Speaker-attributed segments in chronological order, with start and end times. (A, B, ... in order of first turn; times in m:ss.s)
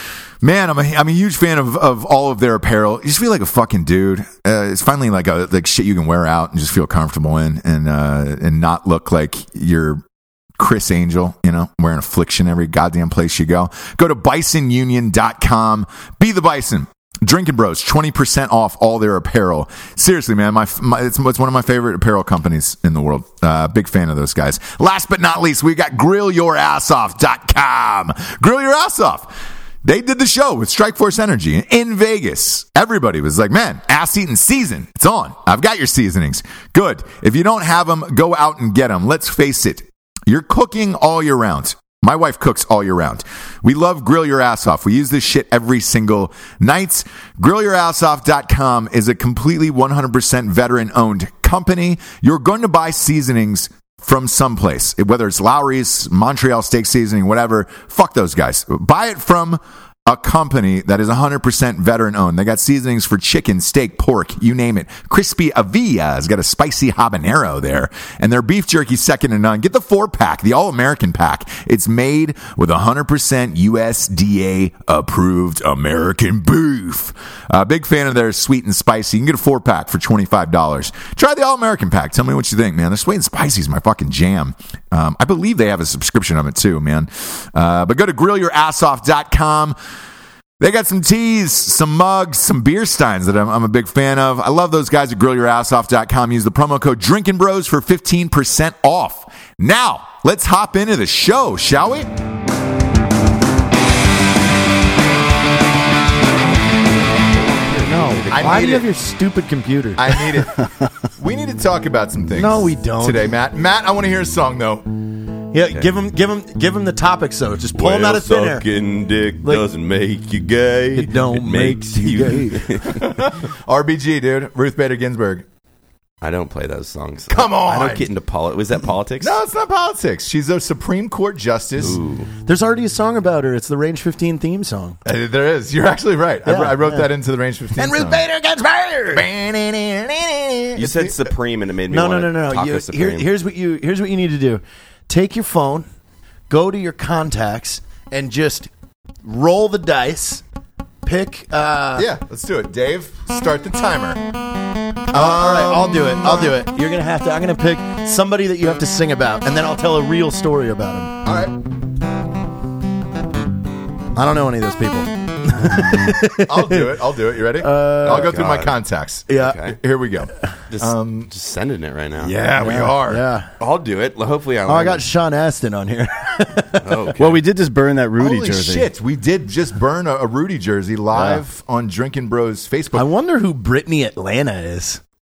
0:00.4-0:10.0 A
0:10.6-1:29.8 A
1:30.6-1:42.1 A
1:47.3-1:48.4 B
1:47.8-1:50.2 C
1:48.3-1:48.9 A
1:50.0-1:54.8 A
1:52.3-1:53.3 C
1:55.5-1:58.6 C
1:57.7-2:03.4 B
2:00.9-2:02.8 C
2:03.0-2:05.4 A
2:06.2-2:09.4 B
2:07.3-2:08.1 A
2:09.2-2:12.0 A
2:11.8-2:12.3 B
2:12.4-2:15.0 C
2:15.0-2:18.2 A
2:16.4-2:17.1 C
2:17.8-2:19.3 C
2:19.1-2:21.1 A
2:20.8-2:23.3 B
2:21.9-2:25.9 C
2:26.5-2:28.7 C
2:29.2-2:30.4 C
2:31.0-2:32.1 C
2:32.0-2:34.2 A
2:35.1-2:36.6 A
2:35.1-2:41.2 C
2:41.2-2:41.6 A
2:44.1-2:46.9 C
2:46.1-2:51.3 A
2:47.6-2:48.4 C
2:48.0-2:48.8 B
2:49.3-2:49.6 C
2:49.3-2:49.8 B
2:50.7-2:52.4 B
2:52.2-2:53.2 A
2:52.6-2:53.5 C
2:53.6-2:55.0 B
2:54.6-2:57.0 C
2:56.8-2:57.4 B
2:57.2-2:58.9 D
2:58.2-3:03.1 A
3:01.1-3:01.4 D
3:02.9-3:05.0 C